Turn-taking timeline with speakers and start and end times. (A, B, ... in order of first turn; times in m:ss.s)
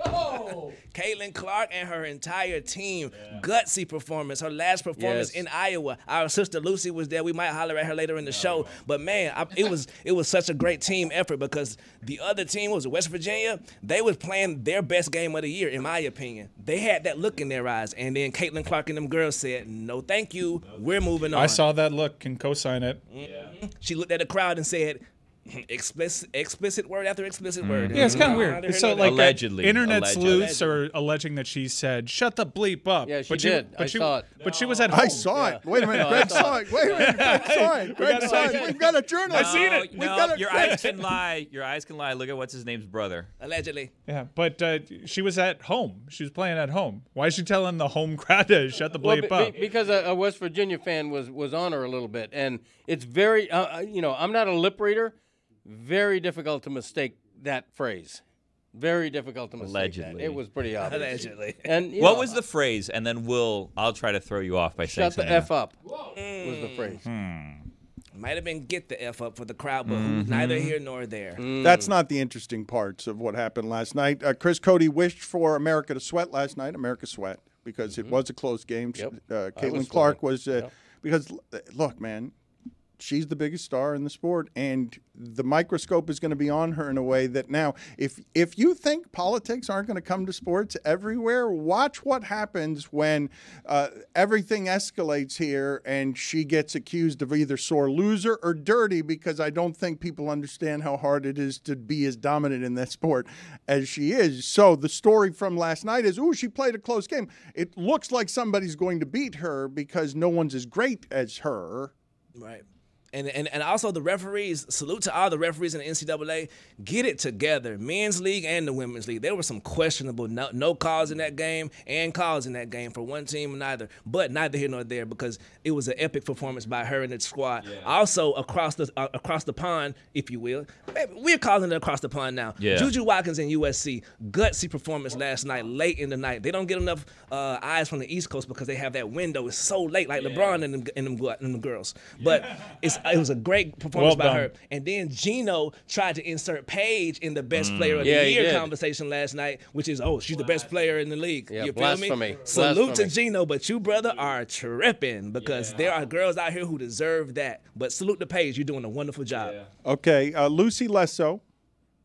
0:00.9-0:21.6 A
0:05.0-0:05.4 B
0:21.3-0:23.0 C
0:23.1-0:29.4 A
0:27.6-0:30.6 D
0:27.9-0:40.9 C
0:29.9-0:30.8 A
0:33.0-0:34.3 B
0:34.4-0:34.9 D
0:34.9-0:40.9 E
0:35.1-0:38.8 B
0:39.3-0:43.3 D
0:43.4-0:43.9 A
0:44.1-0:49.6 C
0:49.0-0:58.2 B
0:58.7-1:02.4 B
0:59.6-1:00.4 D
1:00.8-1:01.7 A
1:02.0-1:05.5 D
1:04.9-1:05.8 B
1:06.1-1:07.0 A
1:06.4-1:07.0 B
1:07.0-1:07.6 D
1:08.2-1:11.4 A
1:09.9-1:10.8 D
1:11.4-1:11.9 B
1:11.6-1:22.3 E
1:19.0-1:20.7 B
1:23.0-1:51.9 E
1:52.4-2:39.6 A
2:07.6-2:07.9 D
2:12.6-2:12.9 D
2:20.2-2:20.6 D
2:23.9-2:24.5 C
2:27.5-2:28.1 D
2:28.0-2:28.7 B
2:31.5-2:33.1 B
2:35.4-2:35.9 D
2:39.4-2:39.6 D
2:39.8-2:41.4 E